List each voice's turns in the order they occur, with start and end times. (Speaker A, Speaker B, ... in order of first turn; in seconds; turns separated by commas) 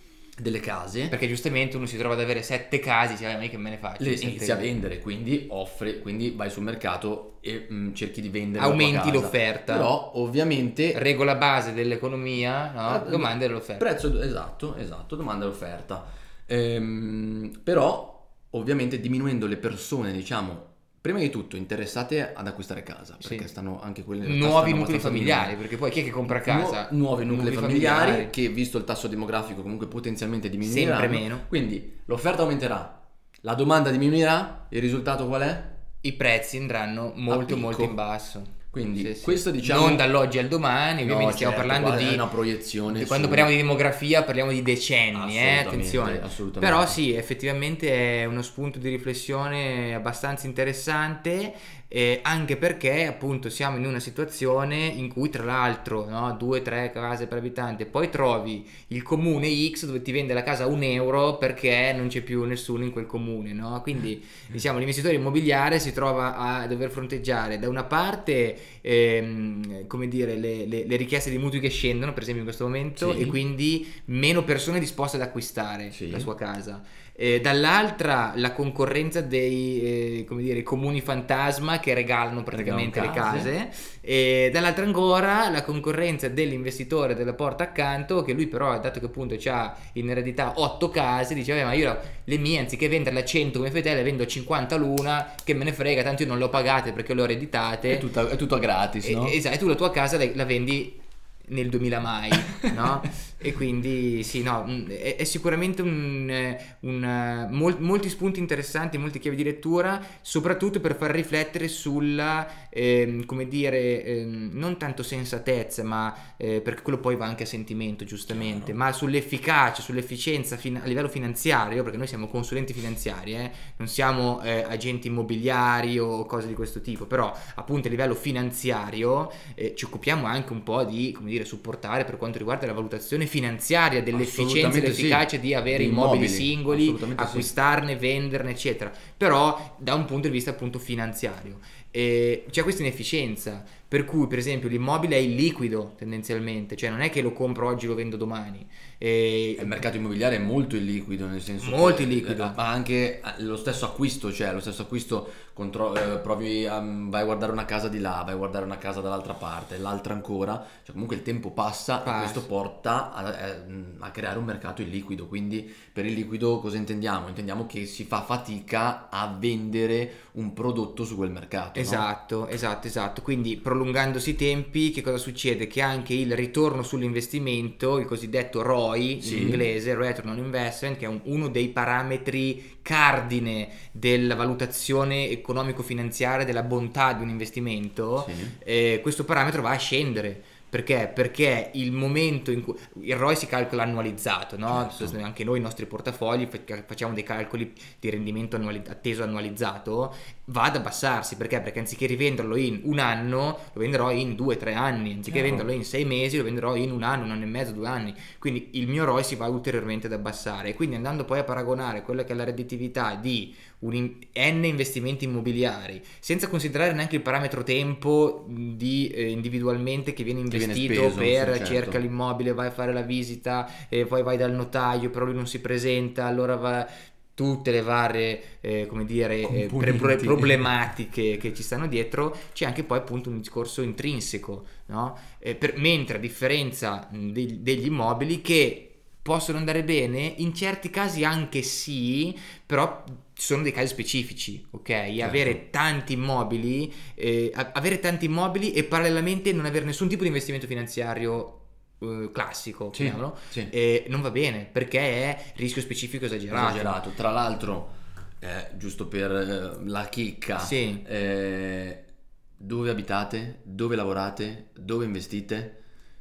Speaker A: 0.4-1.2, Speaker B: 1.1-4.7, Speaker A: 4.0-11.0, Speaker B: 8.6-9.9, Speaker B: 10.9-13.9, Speaker A: 12.8-25.6, Speaker B: 23.2-23.5, Speaker B: 24.2-28.3, Speaker A: 26.3-35.8, Speaker B: 30.6-31.5, Speaker B: 36.0-42.3, Speaker A: 37.3-38.0, Speaker A: 38.7-40.1, Speaker A: 41.0-43.5, Speaker B: 42.9-98.1, Speaker A: 45.1-47.0, Speaker A: 73.0-73.4, Speaker A: 75.9-76.3, Speaker A: 82.5-83.5, Speaker A: 97.9-99.4, Speaker B: 99.0-149.8, Speaker A: 118.3-118.8, Speaker A: 134.1-137.5, Speaker A: 149.6-172.1, Speaker B: 151.6-152.6, Speaker B: 162.0-162.5, Speaker B: 171.8-257.0, Speaker A: 179.2-179.7, Speaker A: 188.2-188.6, Speaker A: 194.7-195.2, Speaker A: 205.3-205.7, Speaker A: 220.5-222.0, Speaker A: 229.4-230.7, Speaker A: 245.2-245.6, Speaker A: 252.9-253.7, Speaker A: 256.5-262.1, Speaker B: 260.6-261.0, Speaker A: 262.6-265.8